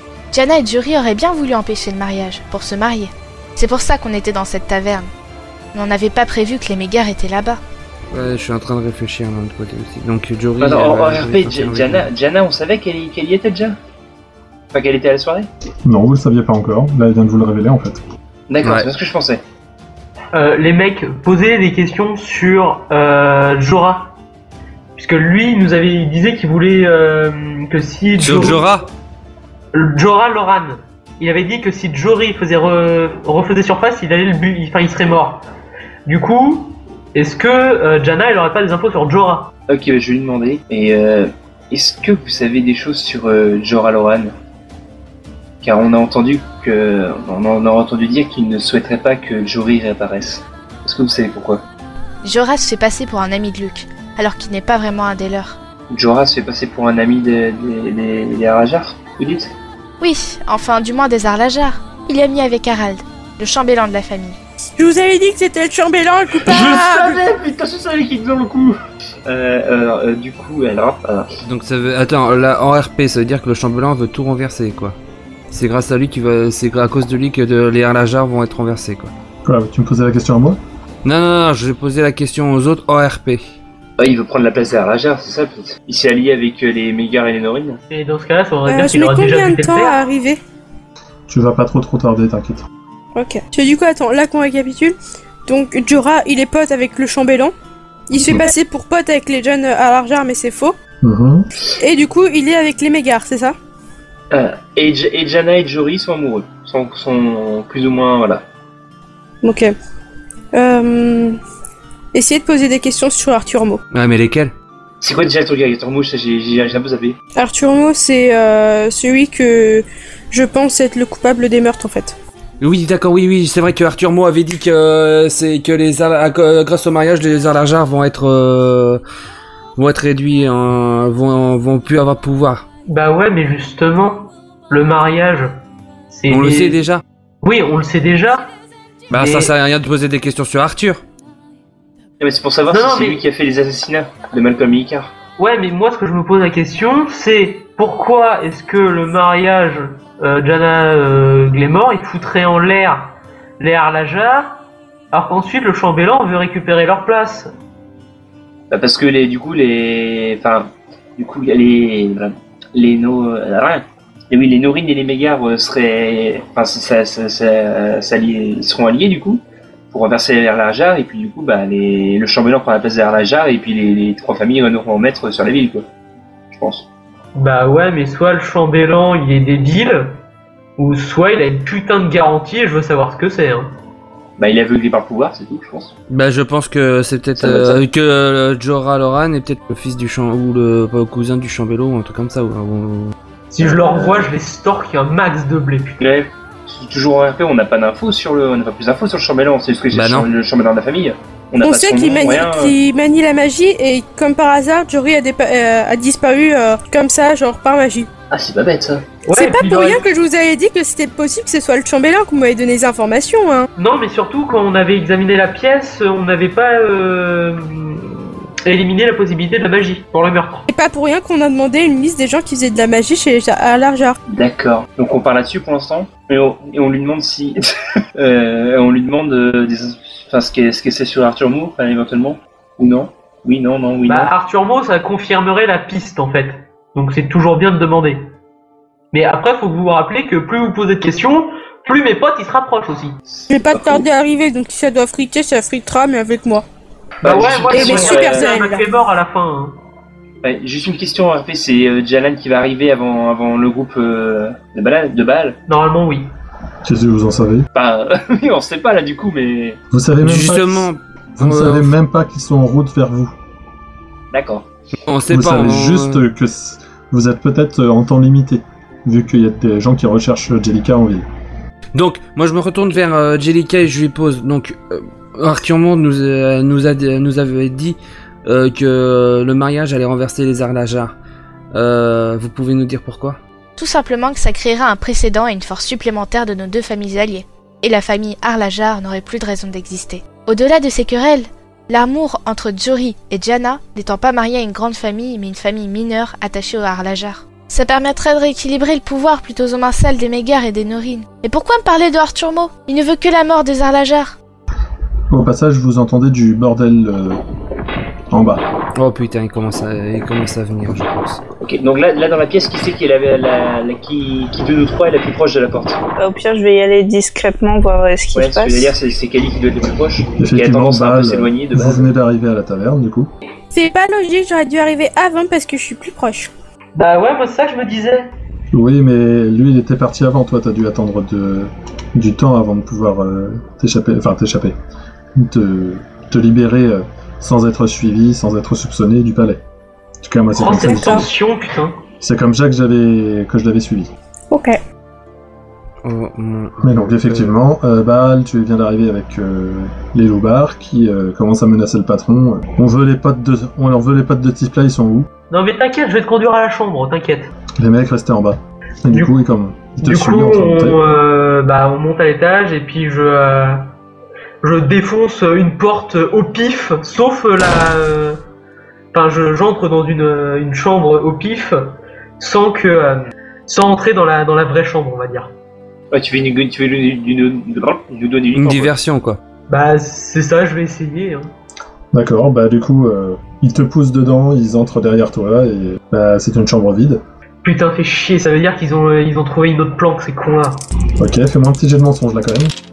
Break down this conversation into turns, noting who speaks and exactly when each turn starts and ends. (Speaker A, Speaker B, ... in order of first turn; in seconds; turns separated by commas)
Speaker A: 0.3-5.1, Speaker A: 5.7-7.6, Speaker B: 8.1-12.1, Speaker C: 10.6-13.8, Speaker C: 14.7-15.5, Speaker D: 15.8-18.0, Speaker C: 18.5-19.4, Speaker B: 18.6-18.9, Speaker E: 20.3-24.1, Speaker E: 25.0-28.6, Speaker B: 28.2-28.9, Speaker E: 29.7-35.4, Speaker E: 36.1-39.5, Speaker C: 39.7-44.3, Speaker C: 45.6-51.6, Speaker A: 52.2-55.6, Speaker C: 55.9-59.5, Speaker A: 60.0-64.4, Speaker F: 64.8-67.2, Speaker C: 66.4-71.3, Speaker B: 71.4-75.0, Speaker B: 75.5-79.1, Speaker D: 79.5-80.6, Speaker B: 81.0-83.4, Speaker C: 84.0-87.8, Speaker E: 87.9-90.0, Speaker F: 88.7-90.4, Speaker D: 91.3-92.7, Speaker F: 93.2-97.5, Speaker F: 98.1-100.8, Speaker D: 101.0-101.5, Speaker F: 101.8-103.5, Speaker C: 104.3-108.4, Speaker F: 109.4-109.7, Speaker F: 110.5-111.4, Speaker F: 112.1-113.8, Speaker B: 113.9-114.5, Speaker C: 115.0-117.2, Speaker F: 117.4-122.2, Speaker B: 122.6-129.0, Speaker B: 129.8-132.7, Speaker E: 132.9-135.6, Speaker E: 136.1-136.8, Speaker B: 136.3-137.0, Speaker E: 137.4-138.5, Speaker E: 139.1-139.5, Speaker B: 139.1-141.0, Speaker C: 142.2-145.1, Speaker E: 142.7-143.2, Speaker E: 145.4-154.6, Speaker E: 155.1-157.5, Speaker C: 158.7-175.9, Speaker C: 176.5-176.9, Speaker E: 177.3-180.2, Speaker E: 180.8-183.7, Speaker C: 184.4-185.9, Speaker B: 186.1-193.2, Speaker C: 187.4-187.8, Speaker E: 193.5-196.0, Speaker C: 193.6-194.3, Speaker C: 196.0-202.8, Speaker B: 199.9-200.3, Speaker F: 201.6-208.1, Speaker C: 208.3-209.1, Speaker E: 209.3-210.1, Speaker F: 209.3-213.7, Speaker E: 213.8-220.7, Speaker F: 220.7-224.2, Speaker C: 224.3-227.6, Speaker C: 228.2-234.3, Speaker E: 234.1-238.3, Speaker E: 239.1-243.2, Speaker C: 243.3-244.1, Speaker F: 243.5-246.7, Speaker C: 247.2-248.6, Speaker E: 247.2-249.8, Speaker F: 247.7-248.8, Speaker C: 250.4-255.6, Speaker E: 255.7-256.3, Speaker D: 256.9-257.7, Speaker C: 257.7-259.8, Speaker D: 259.9-263.3, Speaker B: 260.2-261.9, Speaker C: 264.3-264.7, Speaker B: 265.1-266.2, Speaker D: 265.3-271.2, Speaker B: 271.9-281.1, Speaker B: 281.7-283.4, Speaker A: 283.8-304.4, Speaker D: 305.3-307.4, Speaker D: 308.3-308.6, Speaker B: 309.0-311.4, Speaker C: 311.6-316.0, Speaker G: 316.2-318.9, Speaker C: 318.3-322.1, Speaker D: 320.4-323.3, Speaker F: 323.7-326.5, Speaker E: 327.0-328.3, Speaker D: 328.7-334.8, Speaker D: 335.4-339.6, Speaker D: 340.2-341.3, Speaker E: 340.6-342.0, Speaker F: 340.8-341.2, Speaker D: 342.2-344.1, Speaker F: 344.5-344.8, Speaker B: 346.0-347.5, Speaker D: 346.8-355.3, Speaker E: 355.5-357.5, Speaker D: 357.8-361.0, Speaker E: 359.1-359.4, Speaker E: 360.0-363.9, Speaker E: 364.6-368.4, Speaker E: 369.1-375.5, Speaker C: 376.1-378.9, Speaker B: 378.5-379.4, Speaker E: 379.7-381.5, Speaker D: 382.1-387.2, Speaker E: 387.6-390.8, Speaker D: 391.2-392.7